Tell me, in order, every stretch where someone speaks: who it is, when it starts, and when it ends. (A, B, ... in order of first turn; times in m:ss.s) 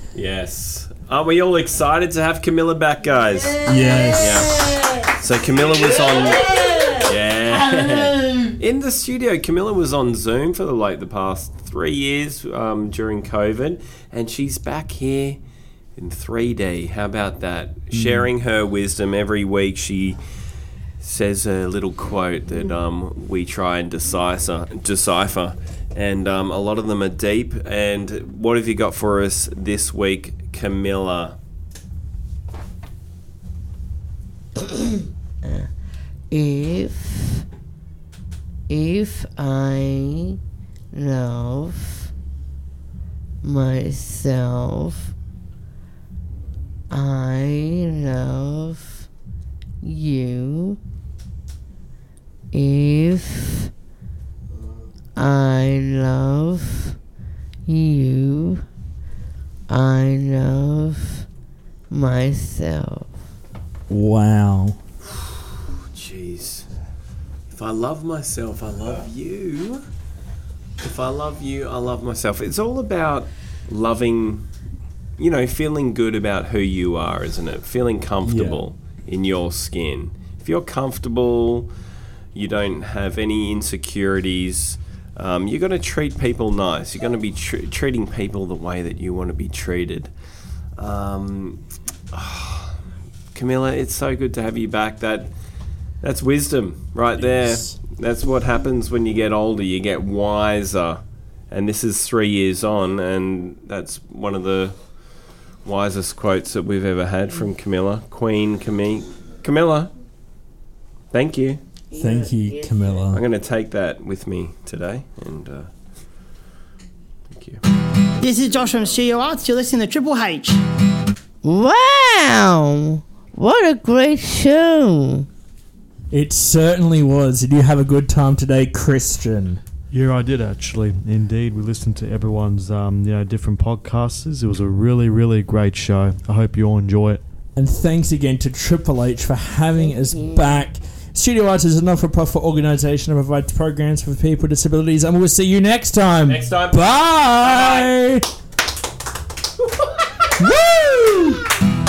0:00.1-0:15.4 A
0:03.6-0:04.8 B
0:16.0-0:20.2 A
0:17.9-0:18.3 B
0:21.0-0:31.4 A
0:35.4-0:35.7 C
0:36.3-0:37.4 C
0:38.7-0:40.4 C
0:40.9-0:42.1 C
0:43.4-0:45.1 C
0:46.9-0:49.1 C
0:49.8-0:50.8 C
0:52.5-0:53.7 C
0:55.1-0:57.0 C
0:57.6-0:58.6 C
0:59.7-1:01.3 C
1:01.9-1:03.1 C
1:03.9-1:04.8 B
1:05.8-1:06.7 A
1:07.5-1:09.8 A
1:10.8-1:14.5 A
1:15.2-1:21.7 A
1:18.2-1:18.7 B
1:22.4-1:30.1 A
1:30.8-1:32.8 A
1:33.3-1:35.3 A
1:36.0-1:44.8 A
1:37.1-1:37.8 B
1:45.6-1:49.9 A
1:51.1-1:51.6 A
1:51.9-1:53.0 C
1:51.9-1:53.2 B
1:53.1-1:55.7 A
1:57.3-1:57.6 A
1:58.2-2:00.6 D
2:01.4-2:05.3 C
2:06.1-2:09.6 B
2:09.9-2:17.2 E
2:17.6-2:28.3 B
2:19.8-2:20.6 C
2:26.3-2:27.9 A
2:30.4-2:31.4 B